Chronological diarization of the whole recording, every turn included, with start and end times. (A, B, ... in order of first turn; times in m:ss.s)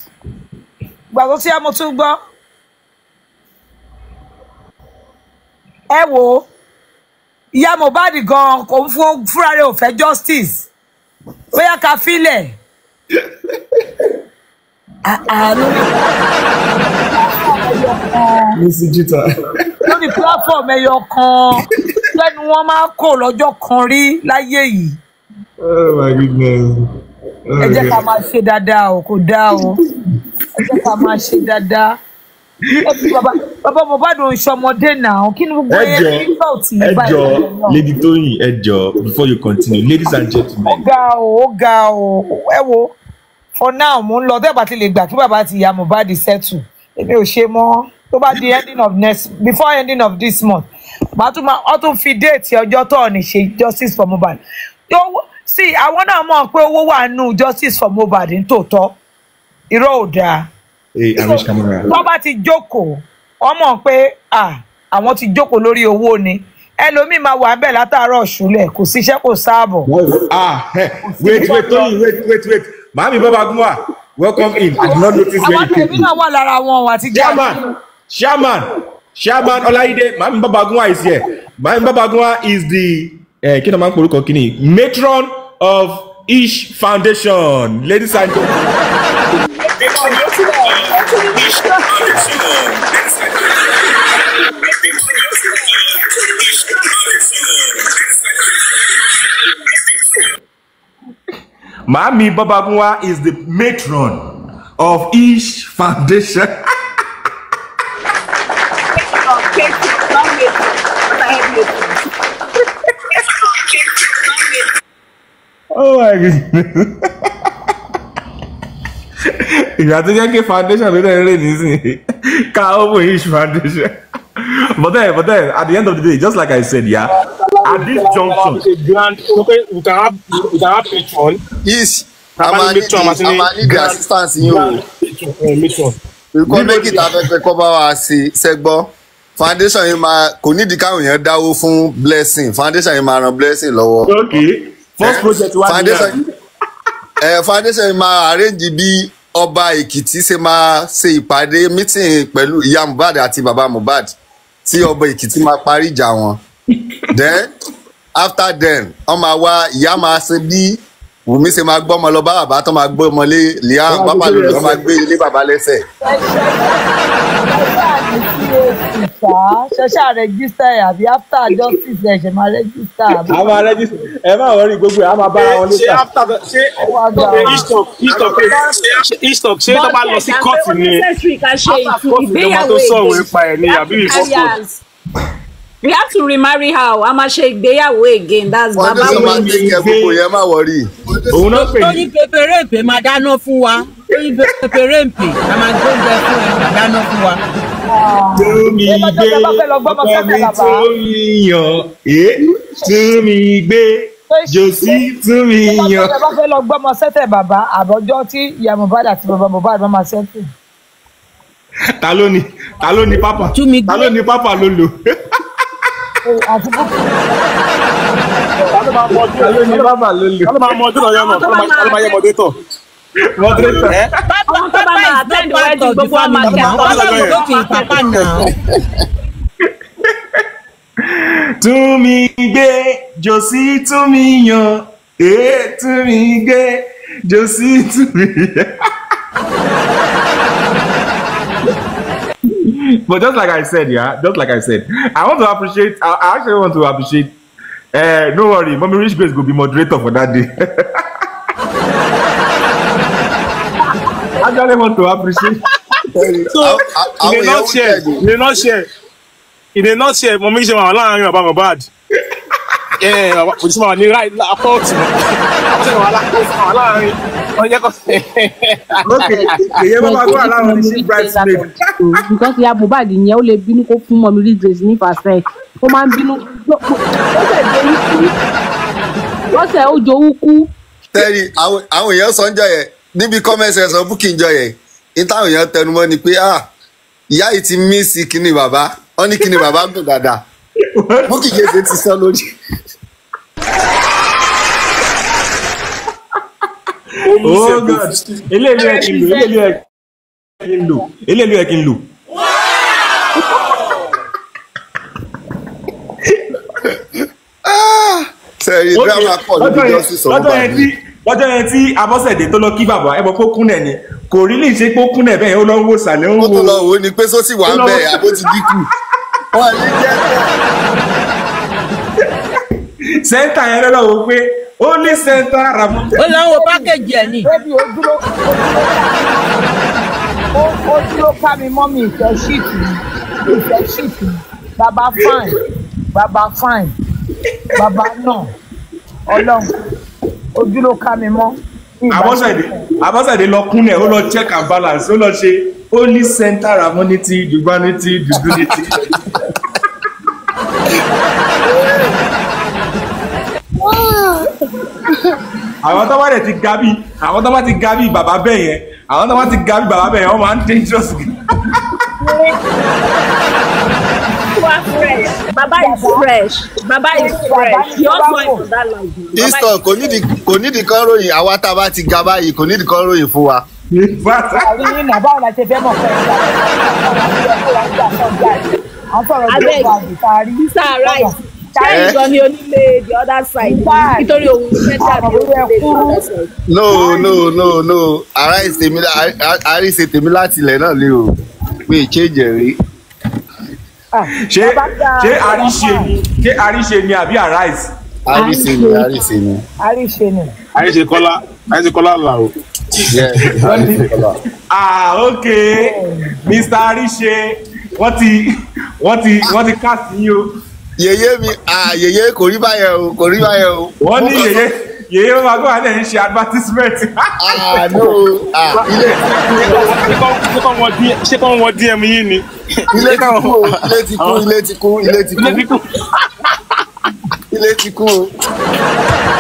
0:01.1-0:02.2 A
0:05.9-0:06.5 A
0:07.5-0:10.7 A
0:11.5-0:12.6 A
0:15.0-0:16.2 A
0:16.9-0:18.6 A
0:18.6-0:20.2 B
0:19.9-0:25.0 A
0:25.6-0:26.8 B
0:27.5-0:28.0 B
0:27.6-0:29.8 A
0:30.6-0:32.0 A
0:30.7-0:31.0 B
0:32.7-0:33.2 B
0:32.8-0:37.8 A
0:35.7-0:36.3 B
0:36.8-0:40.8 B
0:40.6-0:43.0 A
0:43.6-0:59.0 A
0:59.7-1:00.5 A
1:01.0-1:01.9 B
1:01.2-1:09.9 A
1:09.9-1:16.1 B
1:11.0-1:11.9 A
1:14.8-1:17.6 A
1:17.1-1:28.8 B
1:29.4-1:32.2 A
1:29.8-1:33.7 B
1:34.8-1:38.7 B
1:41.9-1:46.6 B
1:49.0-1:52.0 C
1:53.4-1:54.6 C
1:55.7-1:57.3 B
1:59.3-2:08.6 B
2:07.4-2:11.4 D
2:11.6-2:14.8 E
2:12.4-2:16.0 D
2:16.3-2:24.4 E
2:16.5-2:17.2 B
2:24.0-2:26.2 B
2:25.0-2:26.2 E
2:27.2-2:36.4 E
2:37.1-2:37.5 E
2:38.2-2:45.8 E
2:43.9-2:44.8 B
2:46.0-2:46.9 A
2:47.5-2:53.6 A
2:53.1-2:56.0 B
2:55.3-3:01.1 D
2:56.8-2:57.7 A
2:57.3-2:58.8 C
2:59.7-3:04.8 C
3:01.6-3:04.6 D
3:05.8-3:09.7 C
3:08.8-3:11.4 E
3:08.9-3:10.2 B
3:11.3-3:12.1 B
3:11.5-3:17.4 F
3:17.9-3:20.9 A
3:18.4-3:26.2 B
3:24.3-3:25.0 A
3:25.7-3:30.5 A
3:32.0-3:34.9 B
3:33.5-3:34.2 F
3:36.2-3:37.2 A
3:38.6-3:42.6 D
3:39.4-3:40.5 B
3:41.0-3:42.2 C
3:43.4-3:44.1 B
3:43.5-3:44.1 D
3:44.3-3:48.5 F
3:44.5-3:48.3 C
3:46.4-3:47.4 D
3:50.1-3:50.4 B
3:51.0-3:58.7 B
4:02.6-4:07.4 B
4:07.9-4:11.0 B
4:14.4-4:15.6 B
4:16.1-4:18.3 E
4:16.5-4:18.9 D
4:19.7-4:21.9 D
4:23.0-4:29.5 D
4:29.0-4:32.2 B
4:29.3-4:38.3 G
4:39.5-4:40.7 G
4:41.1-4:46.7 E
4:47.3-4:50.4 E
4:51.0-4:51.9 B
4:51.3-4:52.4 E
4:57.2-4:58.4 D
4:57.4-4:59.8 B
4:58.7-4:59.6 A
5:00.6-5:02.1 B
5:07.6-5:10.9 E
5:09.0-5:16.8 B
5:16.4-5:18.9 E
5:17.7-5:18.5 B
5:19.5-5:20.6 E
5:23.2-5:26.3 B
5:26.2-5:27.5 F
5:26.5-5:29.5 A
5:30.5-5:35.6 A
5:36.1-5:37.0 A
5:37.8-5:38.5 A
5:39.3-5:39.7 A
5:40.6-5:43.0 A
5:42.1-5:49.2 B
5:53.8-5:54.4 E
5:55.8-6:01.8 B
6:02.2-6:02.6 A
6:04.5-6:10.2 C
6:04.9-6:06.2 A
6:07.1-6:08.6 A
6:09.4-6:13.6 E
6:13.9-6:14.9 B
6:14.5-6:22.2 A
6:19.5-6:20.0 C
6:20.6-6:26.5 C
6:21.9-6:22.2 E
6:23.6-6:24.5 A
6:25.0-6:26.2 A
6:26.7-6:31.3 E
6:26.9-6:27.3 A
6:31.9-6:32.8 E
6:34.1-6:36.1 A
6:34.4-6:37.9 B
6:38.3-6:39.6 E
6:38.3-6:39.1 A
6:39.8-6:40.5 A
6:40.8-6:42.5 D
6:43.1-6:44.4 E
6:43.6-6:44.1 B
6:44.7-6:48.4 B
6:45.7-6:46.4 A
6:49.0-6:50.5 B
6:51.0-6:54.6 E
6:54.0-6:57.3 B
6:57.4-7:00.1 E
6:58.7-7:04.5 D
7:02.9-7:05.7 E
7:05.1-7:06.2 D
7:07.5-7:08.3 E